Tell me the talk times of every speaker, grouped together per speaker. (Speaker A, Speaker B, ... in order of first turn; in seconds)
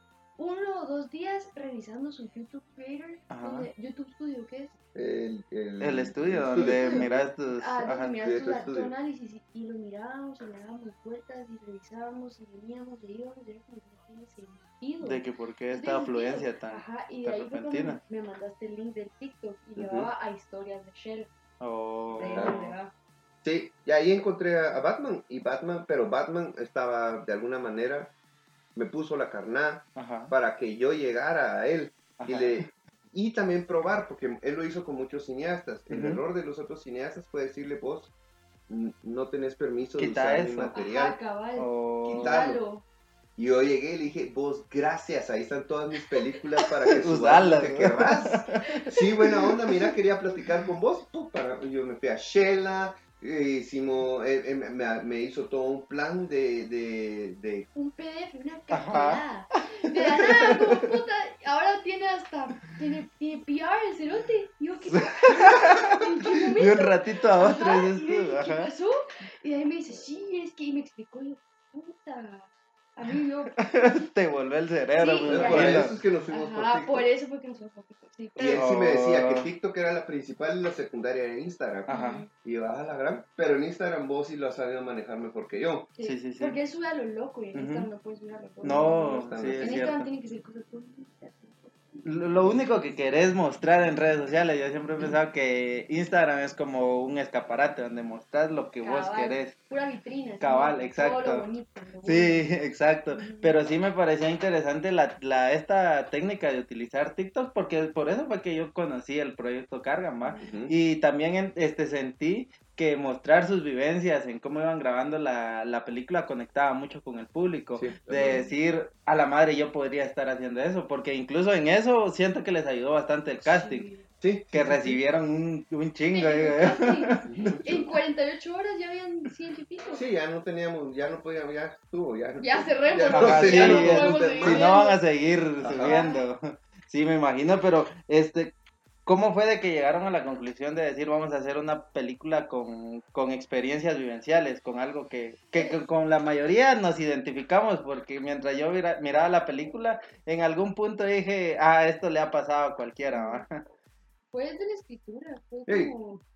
Speaker A: 0.4-4.8, 7.5-21.3, 22.1-22.9, 40.7-42.8, 48.9-49.9, 57.8-73.9, 75.0-78.6, 81.9-82.3, 86.0-92.2, 98.8-102.5, 103.1-103.5, 110.2-110.5, 123.5-124.0, 126.1-130.0, 132.4-135.0, 135.8-136.2, 153.1-153.5, 154.3-156.2
Speaker B: 3.3-3.7, 5.8-8.2, 15.0-18.0, 21.6-22.8, 30.0-30.3, 32.2-32.7, 35.9-36.2, 40.0-40.7, 41.6-42.4, 47.0-48.8, 58.7-59.2, 60.0-60.8, 65.4-66.0, 66.6-68.7, 73.6-75.9, 78.4-79.5, 81.9-82.2, 86.0-86.6, 87.5-87.9, 88.6-90.1, 92.1-99.5, 100.4-101.5, 102.0-123.9, 124.5-127.2, 133.1-138.6, 139.1-153.6
Speaker C: 4.9-7.3, 8.2-8.9, 19.8-20.1, 22.3-22.6, 23.4-28.1, 28.8-38.1, 38.7-41.2, 42.0-42.6, 43.4-57.7, 75.3-77.1, 78.4-85.9, 88.7-89.9, 110.4-110.8, 117.8-118.5, 124.2-125.0, 127.2-127.9, 129.9-134.7, 135.6-136.0, 155.7-155.9